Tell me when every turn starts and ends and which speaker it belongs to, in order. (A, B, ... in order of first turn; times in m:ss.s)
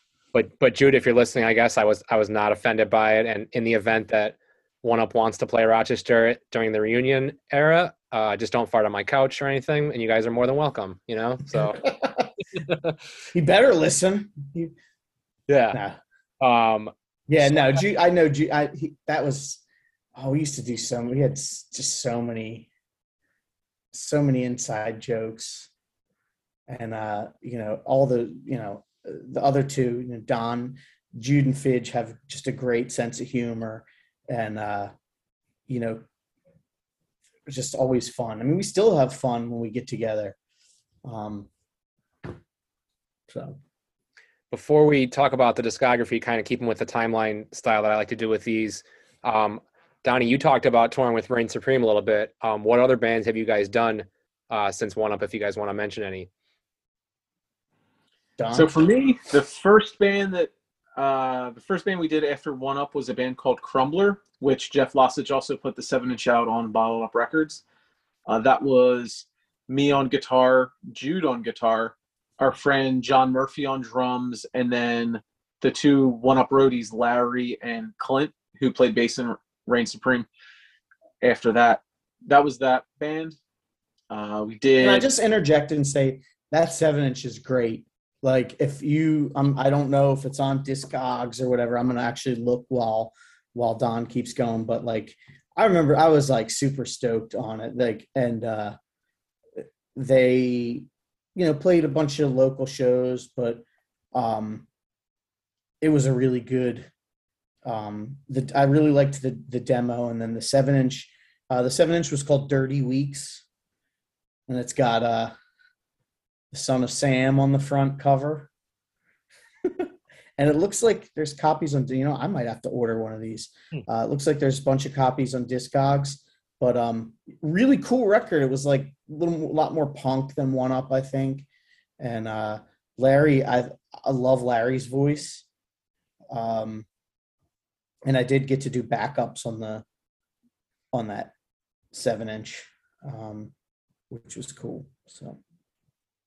0:00.3-0:11.9 A
0:11.6-0:12.3 B
0:13.3-0:14.7 B
0:15.5-0:15.8 A
0:15.7-0:16.0 B
0:16.4-0:17.8 A
0:17.3-0:19.6 B
0:20.1-0:22.7 B
0:23.9-0:25.7 B
0:26.7-0:34.9 B
0:35.7-0:36.0 B
0:37.5-0:40.4 B
0:41.0-0:41.5 B
0:43.3-0:43.6 B
0:44.5-0:56.3 A
0:58.4-0:58.7 B
0:58.5-1:07.6 C
1:08.2-1:20.3 C
1:21.2-1:23.4 C
1:24.1-1:25.1 C
1:24.8-1:38.8 B
1:39.6-1:44.7 B
1:45.8-1:46.9 B
1:47.6-1:53.4 B
1:54.5-1:55.3 B
1:56.5-1:58.5 B
1:59.6-2:11.5 B
2:12.0-2:15.4 B
2:16.3-2:16.9 B
2:18.0-2:19.8 B
2:20.9-2:21.3 B
2:21.9-2:23.5 B
2:24.1-2:25.4 B